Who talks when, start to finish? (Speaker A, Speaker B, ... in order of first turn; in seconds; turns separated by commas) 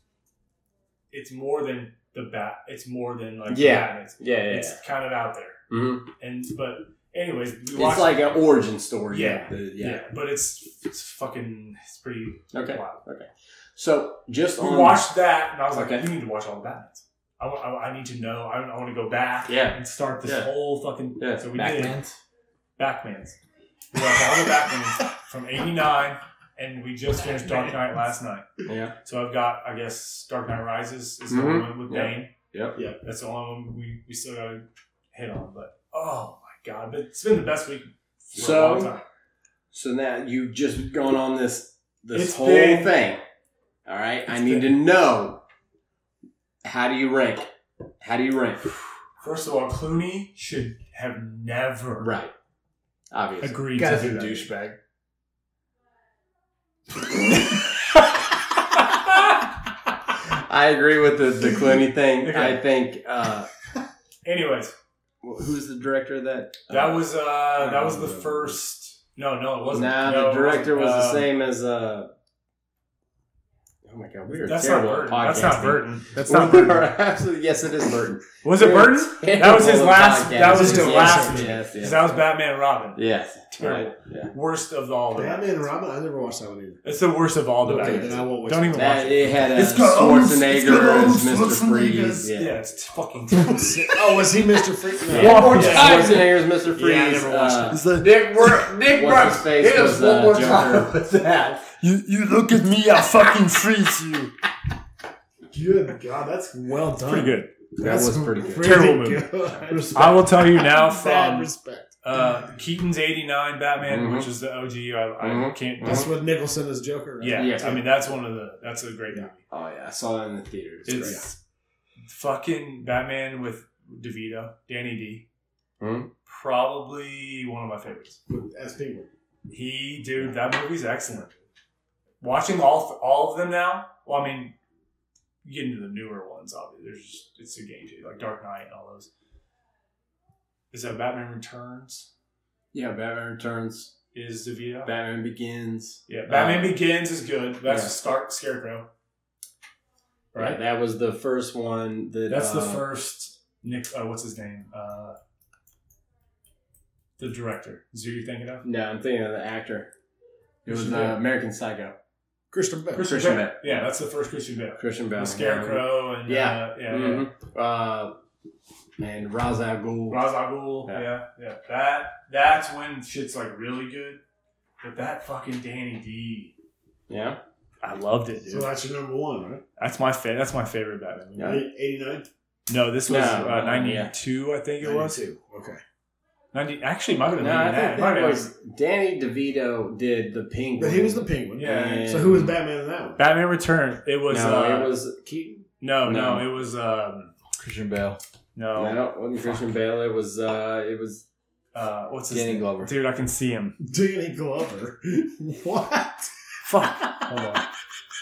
Speaker A: 1.1-5.6, Speaker B: 3.5-4.8, Speaker B: 5.7-6.1, Speaker A: 6.2-8.3, Speaker B: 7.7-10.0, Speaker A: 9.1-13.0, Speaker B: 12.5-15.1, Speaker A: 14.6-22.0, Speaker B: 15.7-16.1, Speaker B: 19.5-20.5, Speaker B: 21.2-21.5, Speaker C: 21.5-22.1, Speaker A: 22.8-23.4, Speaker A: 23.9-28.5, Speaker B: 28.7-28.9, Speaker A: 29.0-32.3, Speaker B: 31.3-32.8, Speaker A: 33.0-39.0, Speaker B: 38.4-38.9, Speaker B: 39.7-43.2, Speaker A: 42.1-42.9, Speaker B: 43.9-45.4, Speaker A: 44.3-44.8, Speaker B: 46.6-47.5, Speaker B: 48.0-48.7, Speaker A: 49.2-52.1, Speaker B: 52.0-52.3, Speaker B: 53.1-53.6, Speaker A: 53.4-54.5, Speaker C: 53.8-54.8, Speaker B: 60.3-63.5, Speaker A: 62.2-62.6, Speaker A: 64.2-64.7, Speaker B: 65.2-68.6, Speaker A: 66.7-71.3, Speaker B: 69.7-72.1, Speaker B: 73.8-82.2, Speaker A: 74.5-76.9, Speaker A: 78.4-85.5, Speaker D: 80.4-81.5, Speaker B: 83.0-84.3, Speaker D: 85.1-86.8, Speaker A: 86.8-89.3, Speaker D: 87.7-92.3, Speaker B: 87.7-88.2, Speaker B: 88.7-92.5, Speaker A: 92.3-93.9, Speaker D: 93.3-96.1, Speaker B: 95.1-97.8, Speaker A: 95.1-96.3, Speaker C: 95.2-96.3, Speaker A: 97.6-98.0, Speaker C: 97.9-101.8, Speaker B: 98.9-100.9, Speaker A: 101.8-104.3, Speaker D: 105.5-112.3, Speaker A: 107.0-107.5, Speaker B: 107.8-108.9, Speaker A: 108.6-109.3, Speaker C: 109.7-110.4, Speaker A: 110.0-116.1, Speaker B: 113.8-114.3, Speaker B: 115.2-116.1, Speaker D: 115.8-117.8, Speaker A: 117.2-119.4, Speaker B: 117.3-117.8, Speaker B: 119.5-121.2, Speaker A: 120.9-121.4, Speaker A: 122.1-125.2, Speaker B: 125.8-126.1, Speaker A: 126.3-128.2, Speaker D: 128.3-129.1, Speaker A: 129.5-131.3, Speaker A: 132.2-134.5, Speaker A: 135.4-139.1, Speaker A: 140.7-142.1, Speaker B: 142.7-143.9, Speaker A: 144.1-144.9, Speaker B: 144.8-146.8, Speaker A: 146.1-148.9, Speaker B: 147.7-147.9, Speaker A: 150.3-150.6, Speaker B: 150.4-152.9, Speaker A: 152.3-155.2, Speaker A: 157.2-158.7, Speaker B: 158.6-159.9, Speaker A: 160.7-161.2, Speaker B: 160.7-162.0, Speaker D: 162.5-163.1, Speaker A: 162.9-167.3, Speaker B: 163.0-163.9, Speaker B: 164.8-168.2, Speaker B: 169.0-170.3, Speaker A: 170.1-174.2, Speaker A: 174.8-176.6, Speaker B: 177.1-177.4, Speaker A: 177.8-178.7, Speaker D: 178.5-179.6, Speaker A: 179.8-181.6, Speaker B: 181.4-181.7, Speaker D: 181.4-182.3, Speaker A: 182.7-185.2, Speaker B: 183.1-184.1, Speaker D: 184.8-185.8, Speaker A: 186.5-188.5, Speaker B: 187.4-192.6, Speaker D: 190.8-193.2, Speaker A: 191.6-192.2, Speaker A: 193.2-194.9, Speaker B: 194.3-196.5, Speaker A: 195.8-197.3, Speaker C: 197.6-198.2, Speaker A: 198.6-199.6, Speaker B: 198.8-201.2, Speaker A: 201.7-203.8, Speaker B: 202.3-202.9, Speaker D: 203.8-206.3, Speaker A: 206.6-207.7